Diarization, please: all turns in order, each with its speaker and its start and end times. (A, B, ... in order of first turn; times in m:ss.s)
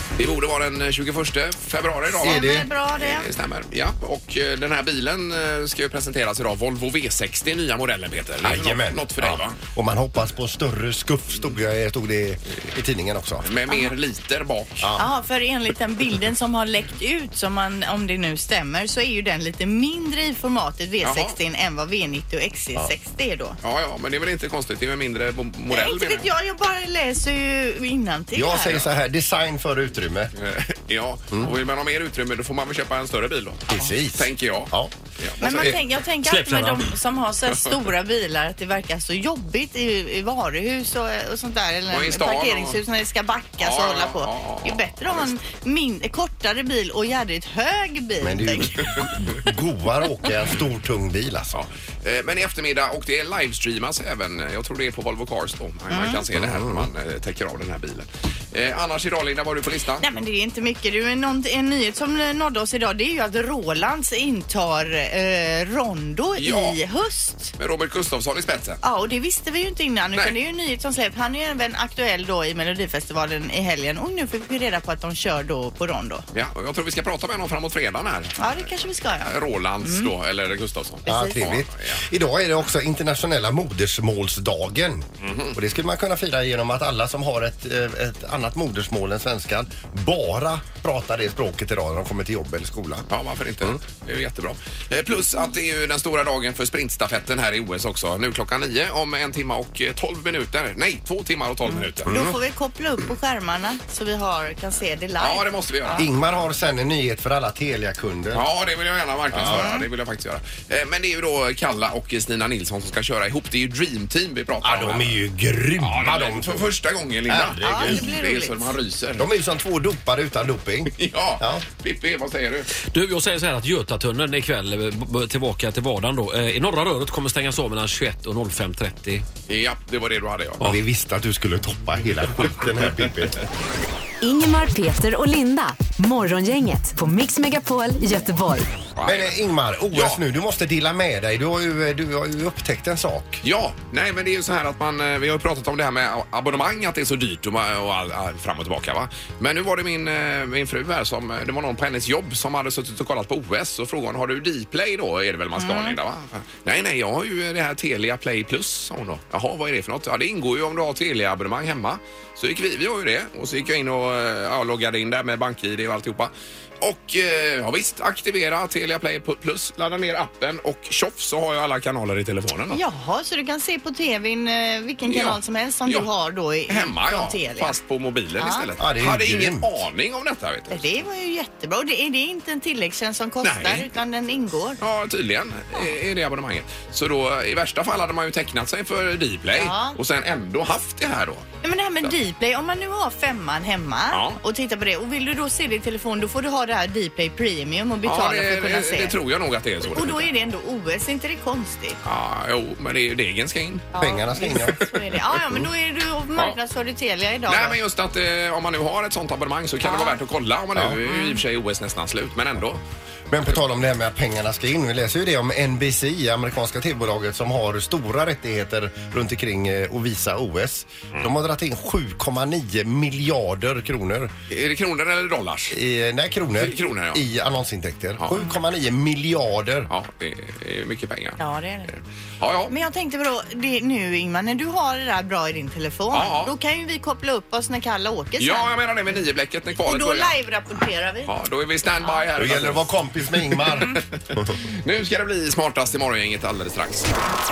0:00.2-0:09.6 A
0:02.2-0:02.7 B
0:02.2-0:03.3 C
0:08.4-0:13.5 B
0:13.4-0:14.9 A
0:14.8-0:15.1 B
0:15.0-0:23.6 C
0:21.0-0:21.3 A
0:23.6-0:26.3 A
0:25.7-0:28.8 C
0:28.3-0:30.3 B
0:30.4-0:35.8 A
0:33.7-0:34.9 B
0:35.4-0:49.0 C
0:36.3-0:36.9 D
0:41.9-0:42.8 A
0:43.6-0:45.3 A
0:48.2-0:51.6 B
0:51.5-1:00.0 A
0:55.9-0:56.2 C
0:56.4-0:56.9 B
1:00.0-1:07.5 C
1:06.4-1:06.8 A
1:07.6-1:08.8 A
1:08.8-1:16.2 C
1:16.3-1:22.0 A
1:18.4-1:20.1 C
1:21.0-1:21.4 C
1:21.0-1:33.1 B
1:25.2-1:25.6 A
1:33.1-1:42.1 A
1:42.0-1:42.3 B
1:42.0-1:46.0 C
1:45.2-1:46.1 A
1:46.0-1:48.4 B
1:48.3-1:55.2 A
1:49.3-1:49.7 B
1:49.4-1:49.8 C
1:54.6-1:56.7 B
1:55.8-1:59.3 A
1:57.2-1:58.1 B
1:57.6-1:58.8 C
1:59.2-2:01.6 B
2:00.9-2:02.7 A
2:02.8-2:09.2 D
2:09.5-2:10.7 A
2:10.6-2:13.4 B
2:14.2-2:18.7 E
2:19.0-2:19.3 A
2:19.0-2:23.4 B
2:19.9-2:20.2 A
2:23.4-2:52.8 A
2:35.6-2:36.0 C
2:52.7-2:57.7 C
2:55.0-2:56.1 A
2:56.7-3:00.8 A
2:58.4-2:58.7 C
2:58.8-2:59.7 B
3:00.7-3:04.8 C
3:03.4-3:03.9 A
3:04.8-3:11.4 A
3:09.5-3:10.0 C
3:11.6-3:19.2 C
3:14.1-3:14.4 A
3:18.0-3:20.3 A
3:19.9-3:22.0 C
3:22.0-3:23.9 A
3:23.9-3:27.8 C
3:24.0-3:24.9 B
3:27.5-3:32.8 A
3:29.8-3:30.2 C
3:33.3-3:44.3 B
3:44.5-3:45.8 A
3:45.7-3:49.9 B
3:46.6-3:47.2 A
3:49.9-3:52.7 A
3:51.4-3:51.9 C
3:52.7-3:58.7 C
3:56.1-3:56.5 A
3:58.4-4:00.3 A
3:59.8-4:01.3 C
4:01.2-4:02.9 A
4:02.4-4:04.5 B
4:03.5-4:04.0 A
4:04.5-4:07.1 A